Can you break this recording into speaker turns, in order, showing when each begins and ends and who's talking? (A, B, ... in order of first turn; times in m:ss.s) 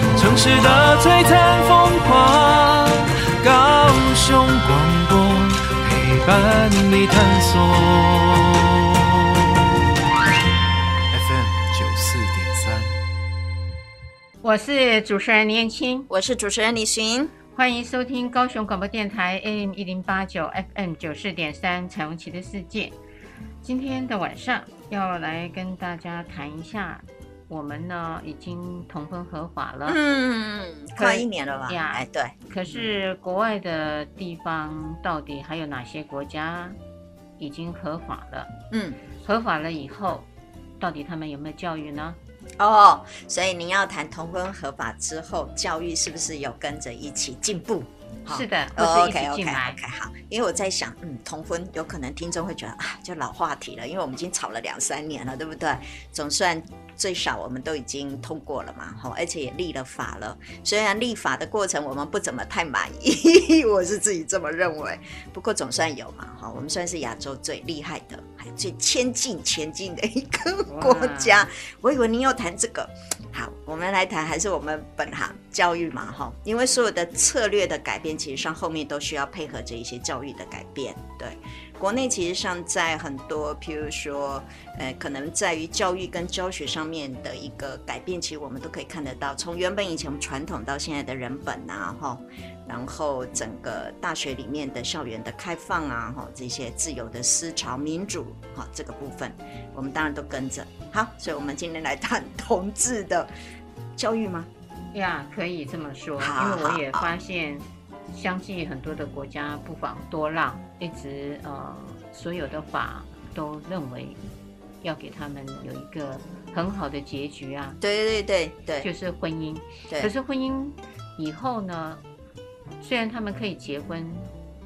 0:00.2-0:09.7 A
0:11.1-0:12.9 A
0:14.4-0:16.1 B
0:16.1-0:17.3 C
0:17.5-0:23.0 B
0:23.6-0:30.0 B
0:29.9-0:32.9 C
0:31.0-0:36.8 B
0:37.4-0:38.5 B
0:38.7-0:39.0 C
0:39.2-0:40.3 B
0:40.8-0:42.2 B
0:42.6-1:43.3 C
0:48.3-0:49.8 B
1:10.7-1:11.5 B
1:44.0-1:44.5 C
1:44.9-1:54.2 B
1:46.2-1:47.1 C
1:54.8-1:57.8 B
1:57.8-1:58.9 C
1:58.8-2:02.0 B
2:02.8-2:04.3 B